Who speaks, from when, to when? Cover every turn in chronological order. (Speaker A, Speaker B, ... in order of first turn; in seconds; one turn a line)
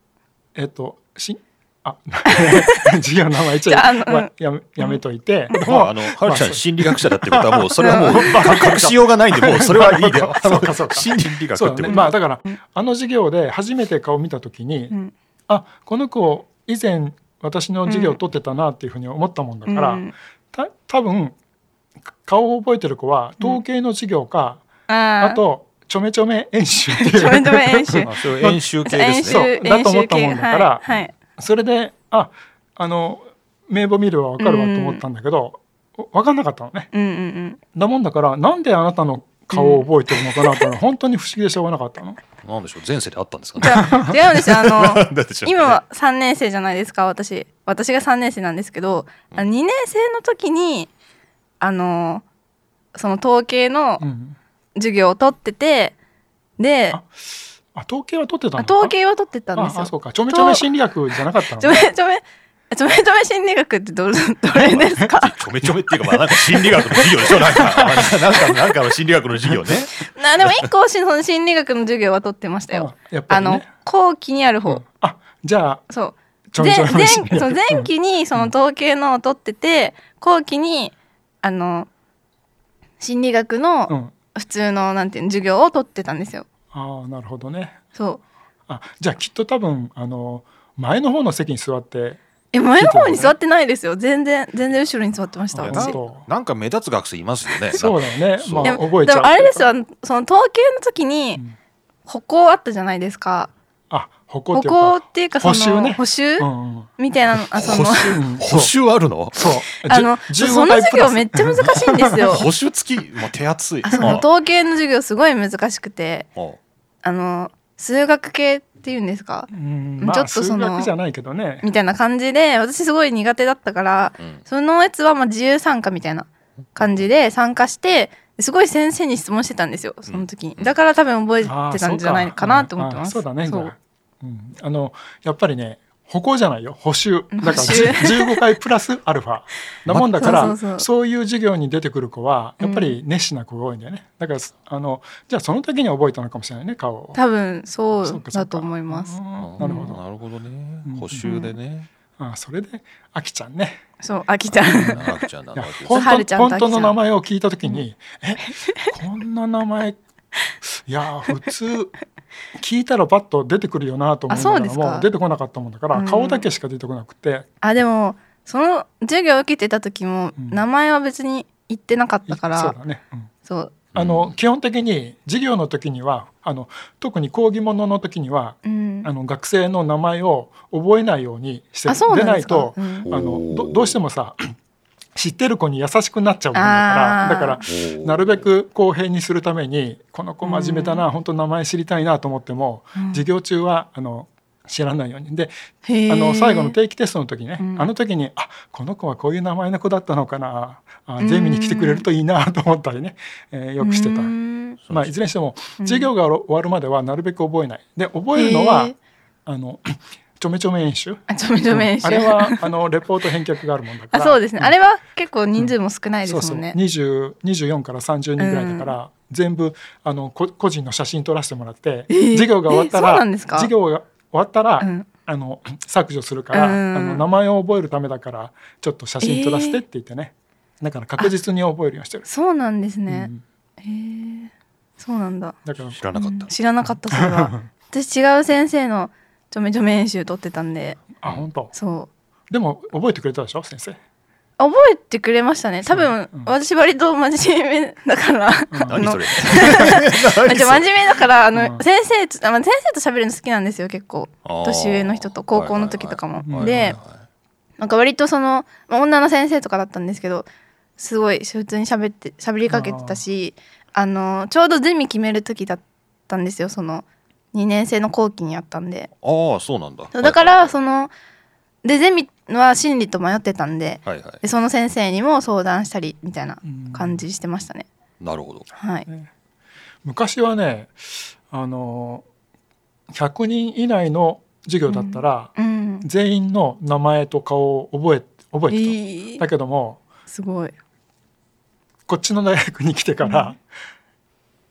Speaker A: 0.6-14.9
Speaker B: 2.3-2.9
Speaker B: 3.7-5.0
Speaker C: 5.6-12.1
Speaker B: 7.8-8.6
Speaker B: 11.8-12.6
Speaker A: 15.5-21.3
Speaker B: 17.9-18.2
Speaker B: 19.7-20.1
Speaker A: 22.2-24.7
Speaker B: 24.9-25.4
Speaker A: 25.2-28.6
Speaker B: 26.9-28.1
Speaker C: 28.0-29.4
Speaker B: 28.8-31.1
Speaker A: 29.2-30.8
Speaker A: 31.4-36.9
Speaker B: 34.4-35.0
Speaker B: 36.9-37.6
Speaker A: 37.7-42.2
Speaker B: 39.5-39.9
Speaker B: 40.4-40.7
Speaker C: 42.4-45.8
Speaker B: 43.6-50.9
Speaker A: 43.7-44.1
Speaker B: 51.6-52.2
Speaker B: 52.9-54.0
Speaker A: 54.0-54.4
Speaker B: 54.8-55.9
Speaker B: 56.6-57.0
Speaker A: 57.7-58.9
Speaker B: 58.6-60.6
Speaker A: 59.5-61.8
Speaker B: 61.6-65.3
Speaker C: 64.5-70.7
Speaker A: 67.0-68.5
Speaker A: 69.5-69.7
Speaker B: 70.0-74.8
Speaker A: 72.7-73.7
Speaker A: 74.7-75.8
Speaker B: 75.9-81.9
Speaker A: 76.5-78.5
Speaker B: 83.0-86.5
Speaker A: 83.9-84.1
Speaker A: 86.7-87.8
Speaker B: 87.9-88.2
Speaker A: 88.7-92.2
Speaker B: 92.5-96.0
Speaker A: 92.7-93.3
Speaker A: 95.5-96.2
Speaker C: 95.6-98.8
Speaker A: 97.7-99.7
Speaker B: 98.6-101.4
Speaker B: 102.1-103.5
Speaker A: 103.9-106.9
Speaker B: 104.5-108.2
Speaker C: 107.3-109.5
Speaker A: 108.1-108.7
Speaker A: 109.3-112.4
Speaker B: 109.8-112.4
Speaker C: 112.2-114.2
Speaker B: 113.8-116.3
Speaker B: 117.0-120.9
Speaker A: 119.5-121.6
Speaker B: 121.6-133.7
Speaker C: 130.1-130.7
Speaker A: 131.4-147.2
Speaker B: 137.3-138.4
Speaker C: 139.9-140.5
Speaker B: 140.2-140.8
Speaker B: 142.6-143.0
Speaker B: 147.1-149.9
Speaker A: 148.0-150.0
Speaker C: 149.4-151.9
Speaker A: 150.9-151.3
Speaker B: 151.2-151.5
Speaker A: 152.2-153.8
Speaker B: 154.0-155.2
Speaker C: 154.6-156.2
Speaker A: 154.7-160.0
Speaker B: 155.9-156.9
Speaker A: 160.6-161.9
Speaker A: 162.6-167.4
Speaker B: 164.3-165.1
Speaker B: 165.9-166.4
Speaker B: 167.6-172.7
Speaker A: 170.4-170.6
Speaker A: 172.3-173.3
Speaker B: 173.4-173.8
Speaker C: 173.9-174.3
Speaker A: 173.9-184.5
Speaker B: 178.6-179.1
Speaker B: 181.9-183.1
Speaker C: 183.1-184.0
Speaker A: 185.1-195.5
Speaker B: 186.5-187.6
Speaker C: 187.7-188.4
Speaker B: 190.4-191.0
Speaker B: 192.9-193.2
Speaker B: 195.8-196.7
Speaker A: 196.1-204.3
Speaker B: 197.6-197.9
Speaker B: 201.2-202.0
Speaker B: 203.8-204.8
Speaker A: 204.9-208.9
Speaker B: 205.8-206.1
Speaker B: 208.3-208.9
Speaker A: 209.4-214.7
Speaker B: 211.3-212.7
Speaker B: 214.1-216.8
Speaker A: 216.2-232.2
Speaker B: 218.4-218.9
Speaker B: 222.1-223.7
Speaker B: 224.8-225.1
Speaker B: 226.5-227.2
Speaker B: 229.2-229.8
Speaker B: 232.2-235.6
Speaker A: 233.1-233.4
Speaker A: 235.6-236.0
Speaker C: 235.9-236.5
Speaker B: 236.1-241.0
Speaker A: 236.8-237.7
Speaker A: 241.2-241.7
Speaker B: 241.7-242.1
Speaker A: 242.5-244.0
Speaker B: 244.6-257.0
Speaker A: 245.9-246.5
Speaker A: 248.7-249.0
Speaker C: 248.9-251.2
Speaker A: 251.5-251.8
Speaker C: 254.4-257.2
Speaker A: 256.4-257.0
Speaker B: 257.8-260.5
Speaker B: 261.0-269.1
Speaker A: 262.7-263.2
Speaker C: 269.2-270.7
Speaker B: 270.1-271.1
Speaker B: 271.8-277.9
Speaker C: 274.0-274.4
Speaker A: 276.6-277.2
Speaker C: 278.2-278.7
Speaker B: 278.7-279.1
Speaker A: 280.0-282.2
Speaker A: 283.1-290.0
Speaker B: 284.9-286.1
Speaker B: 288.7-289.4
Speaker B: 290.3-290.7
Speaker A: 292.1-293.6
Speaker B: 293.2-293.5